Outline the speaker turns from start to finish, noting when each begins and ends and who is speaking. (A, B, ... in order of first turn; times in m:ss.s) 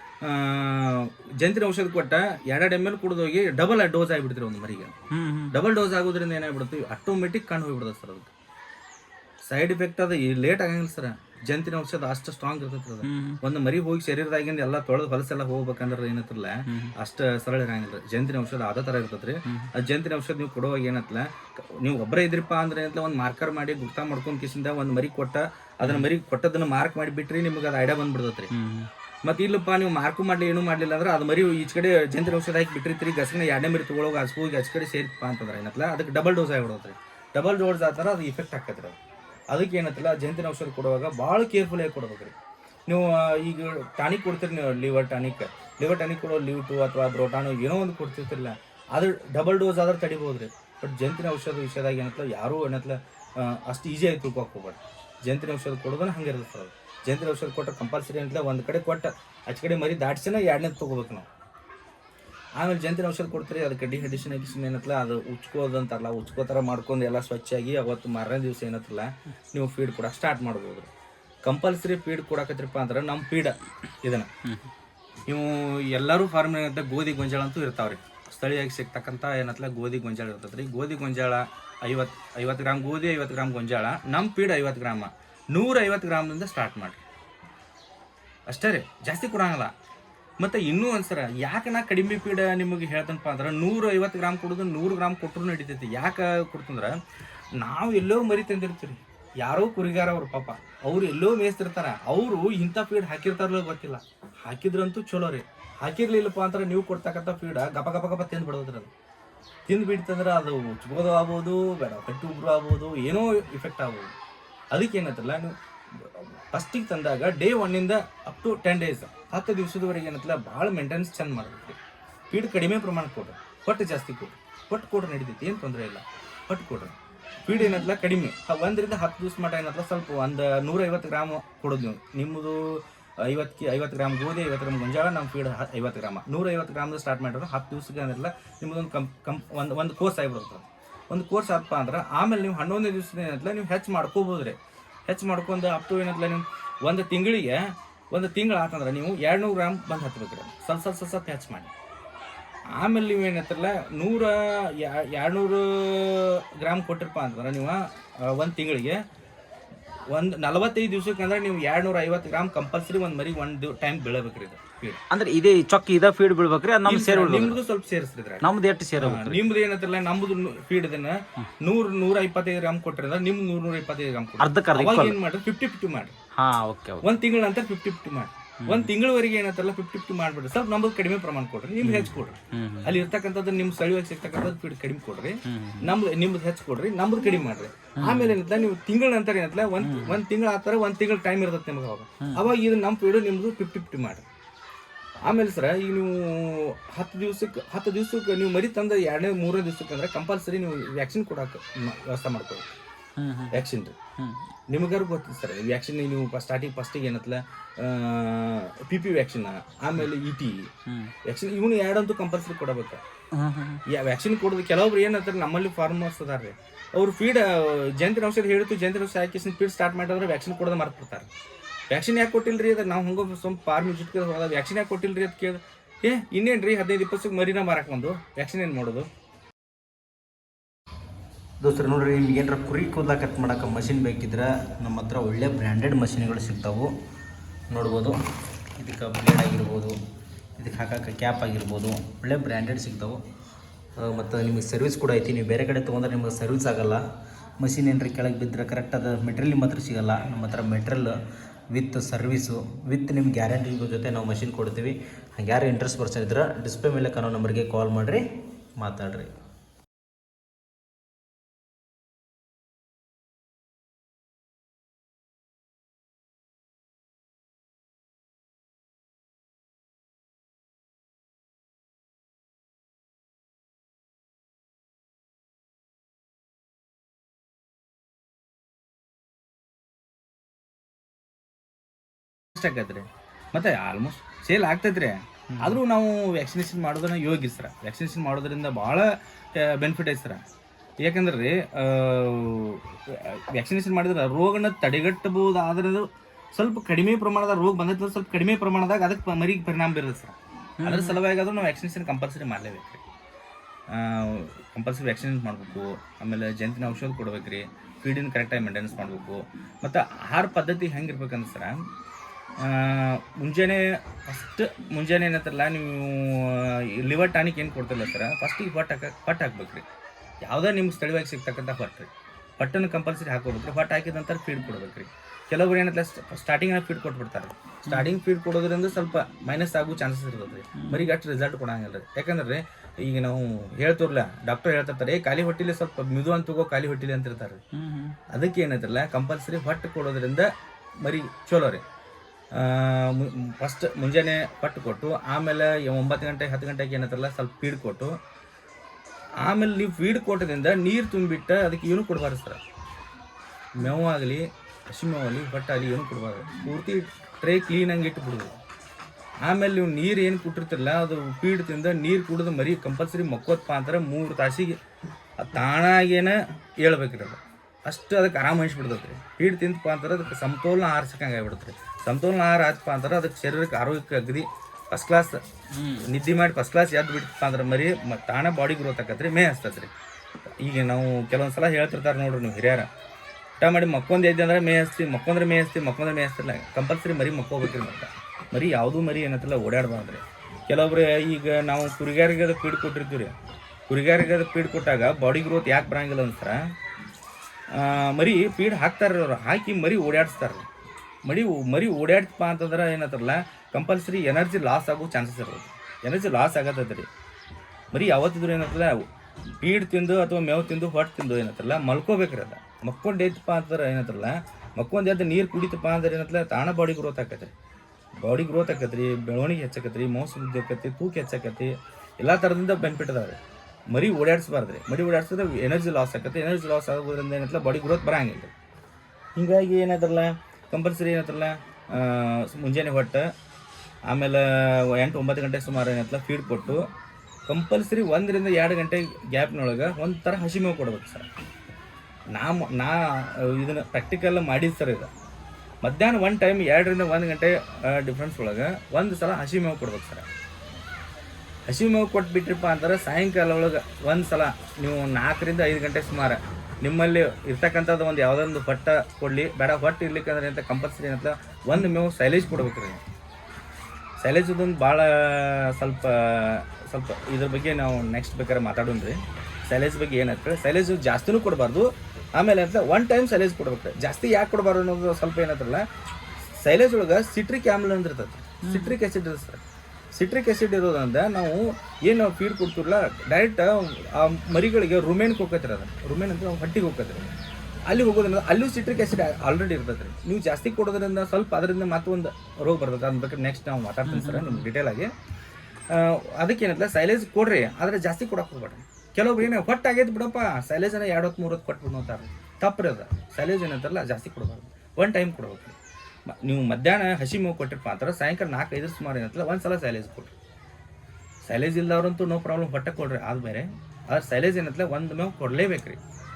0:00.2-0:04.9 A
0:05.1-0:05.6 B
0:05.5-0:08.3 A
0:09.5-0:28.5 A
0:13.0-0:13.4 B
0:16.7-0:16.9 B
0:25.8-0:26.1 B
0:28.5-0:28.9 B
0:29.2-0:39.0 A
0:39.5-0:42.4 A
0:42.9-1:01.3 A
1:02.6-1:10.9 A
1:11.4-1:14.3 A
1:15.3-1:27.0 A
1:28.5-1:29.7 A
1:30.4-1:37.0 A
1:37.6-1:48.9 A
1:49.7-1:54.1 A
1:54.7-2:01.8 A
2:02.3-2:31.7 A
2:32.8-2:39.0 A
2:40.1-2:45.0 A
2:45.1-2:47.6 B
2:46.8-2:48.5 A
2:48.4-2:49.4 B
2:49.0-2:56.2 A
2:54.4-2:55.2 B
2:56.4-2:57.1 B
2:57.0-3:14.3 A
2:58.6-2:58.9 B
3:01.8-3:03.0 B
3:05.4-3:05.9 B
3:08.0-3:08.4 B
3:09.8-3:10.2 B
3:15.3-3:22.7 A
3:23.2-3:23.6 B
3:23.5-3:24.0 A
3:24.7-3:33.0 A
3:30.9-3:31.1 B
3:33.3-3:33.8 B
3:33.9-3:41.3 A
3:41.9-3:49.1 A
3:51.6-3:56.9 B
3:57.7-3:58.2 B
3:58.8-4:00.0 B
4:00.6-4:03.2 B
4:04.0-4:07.0 B
4:07.6-4:11.2 B
4:11.7-4:19.3 B
4:42.5-4:50.4 A
4:45.5-4:45.8 B
4:51.0-5:03.0 A
5:00.8-5:01.2 B
5:03.9-5:11.9 A
5:12.6-5:19.9 A
5:20.4-5:37.6 A
5:27.8-5:28.1 B
5:30.8-5:31.1 B
5:37.7-5:38.2 B
5:38.3-5:40.5 A
5:41.0-5:41.8 A
5:42.5-5:48.2 A
5:49.4-5:52.6 A
5:53.8-5:58.6 A
5:59.4-6:04.8 A
6:05.4-6:15.4 A
6:15.7-6:16.0 B
6:15.9-6:19.9 A
6:20.6-6:22.9 A
6:23.6-6:33.3 A
6:33.9-6:36.6 A
6:37.7-6:40.7 A
6:41.3-6:47.1 A
6:47.9-6:49.0 A
6:49.6-6:57.5 A
6:58.2-7:03.4 A
7:03.9-7:08.5 A
7:09.4-7:13.3 A
7:14.1-7:16.8 A
7:17.5-7:21.3 A
7:22.3-7:25.1 A
7:25.8-7:30.3 A
7:31.7-7:43.0 A
7:44.2-7:55.8 A
7:56.6-7:59.6 A
7:58.6-7:59.0 B
8:00.1-8:07.3 A
8:07.8-8:15.1 A
8:14.1-8:14.6 B
8:15.9-8:25.8 A
8:26.3-8:30.4 A
8:31.5-8:36.0 A